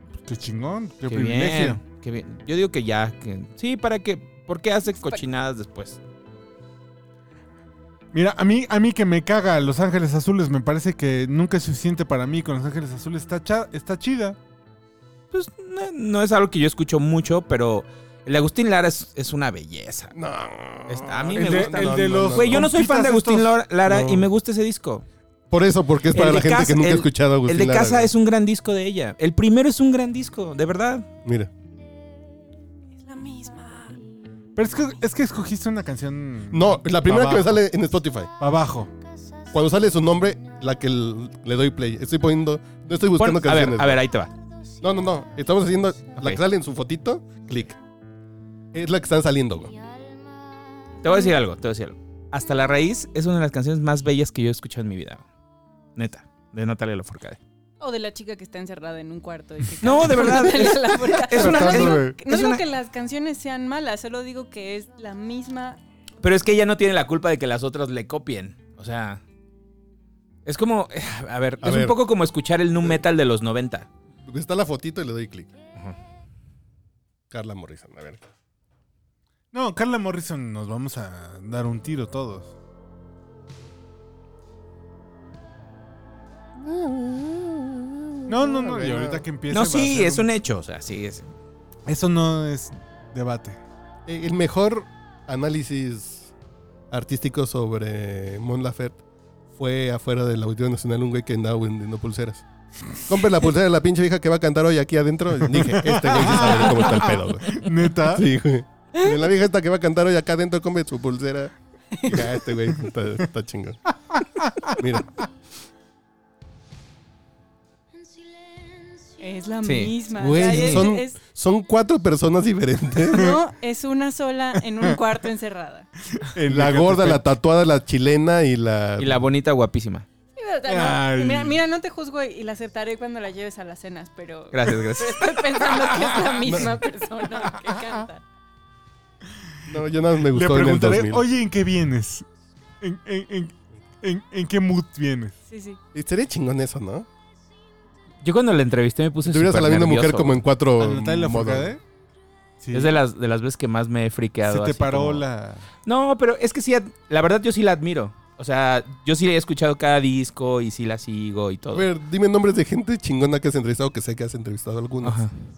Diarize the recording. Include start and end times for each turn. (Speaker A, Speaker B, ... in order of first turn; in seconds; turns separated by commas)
Speaker A: 0.2-1.8, Speaker B: 1.1-6.0, Speaker A: 8.1-14.4, Speaker B: 15.3-20.1, Speaker C: 20.1-22.7, Speaker B: 20.9-25.0, Speaker A: 21.3-23.5, Speaker C: 23.9-24.3, Speaker C: 25.5-28.1, Speaker B: 26.1-31.1, Speaker C: 31.2-31.5, Speaker D: 33.0-34.0, Speaker A: 34.5-37.6, Speaker C: 36.5-38.3, Speaker A: 38.4-38.9, Speaker C: 39.5-44.0, Speaker B: 43.2-44.3, Speaker C: 44.8-47.8, Speaker C: 48.7-49.7, Speaker B: 51.0-55.2, Speaker D: 51.0-51.3, Speaker B: 56.0-57.4, Speaker D: 57.8-65.8, Speaker B: 59.8-62.6, Speaker C: 61.4-62.0, Speaker B: 66.2-69.2, Speaker B: 70.4-73.9, Speaker C: 71.6-72.0, Speaker C: 74.2-75.5, Speaker C: 77.3-78.2, Speaker A: 79.5-82.5, Speaker C: 86.6-89.2, Speaker A: 88.3-90.3, Speaker B: 89.5-91.3, Speaker A: 91.8-93.6, Speaker C: 94.0-96.3, Speaker C: 96.9-99.0, Speaker C: 99.5-102.4, Speaker C: 103.0-111.5, Speaker A: 105.6-108.2, Speaker D: 111.9-112.2, Speaker C: 112.0-113.8, Speaker C: 114.7-115.1, Speaker D: 119.2-121.2, Speaker B: 119.6-120.9, Speaker C: 120.2-123.4, Speaker D: 123.1-125.9, Speaker A: 126.2-127.2, Speaker C: 126.5-129.2, Speaker B: 129.0-130.1, Speaker D: 130.3-138.2, Speaker A: 130.7-131.6, Speaker B: 134.5-135.6, Speaker C: 136.4-136.7, Speaker C: 139.7-141.2, Speaker A: 140.3-142.3, Speaker A: 142.8-145.3, Speaker D: 145.5-145.8, Speaker C: 145.9-147.1, Speaker B: 148.2-150.4, Speaker C: 149.2-151.8, Speaker A: 150.8-151.8, Speaker A: 152.6-153.0, Speaker B: 152.7-155.2, Speaker A: 154.4-155.7, Speaker B: 155.8-161.9, Speaker C: 161.7-165.2, Speaker B: 165.0-165.3